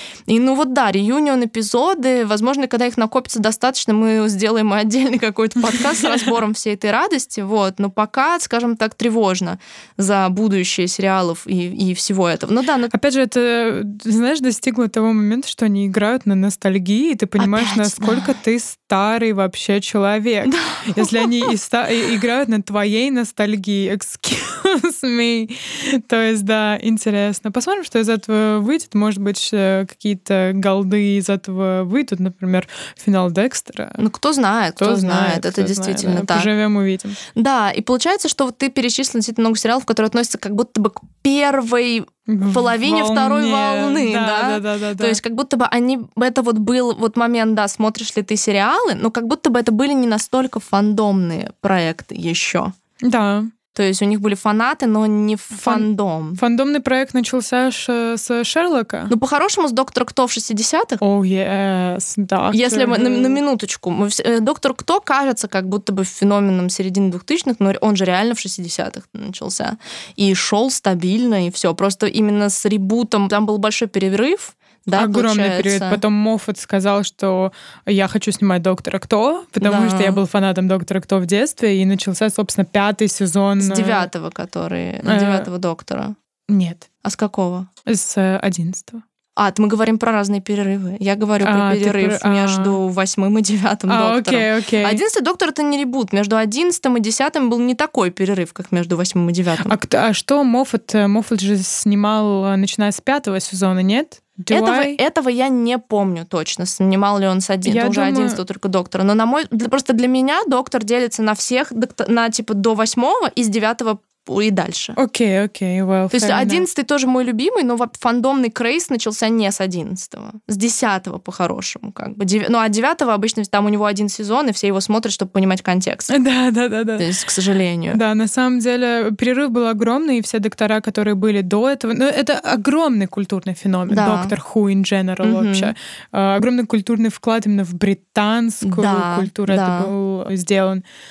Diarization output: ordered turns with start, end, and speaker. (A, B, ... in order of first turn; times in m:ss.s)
0:00.3-0:12.9 A
0:12.9-0:34.0 B
0:17.4-0:18.3 A
0:20.4-0:21.5 A
0:34.0-0:36.5 A
0:34.8-0:37.2 B
0:37.4-0:52.7 A
0:42.3-0:45.2 B
0:53.0-0:53.5 B
0:53.7-0:56.4 A
0:55.5-0:59.1 B
0:59.1-1:01.0 A
1:01.0-1:03.4 B
1:02.5-1:16.0 A
1:15.0-1:24.1 B
1:19.6-1:20.2 A
1:23.6-1:26.2 A
1:25.0-1:25.5 B
1:26.5-1:26.9 B
1:27.0-1:27.7 A
1:27.9-1:29.0 B
1:29.4-1:39.8 A
1:31.4-1:32.8 B
1:33.9-1:35.0 B
1:39.7-1:45.0 B
1:44.5-1:55.0 A
1:47.6-1:48.4 B
1:55.0-1:56.6 B
1:56.1-2:06.1 A
2:06.1-2:07.1 B
2:07.0-2:08.0 A
2:07.9-2:20.8 B
2:13.9-2:14.3 A
2:15.2-2:15.7 A
2:18.6-2:19.9 A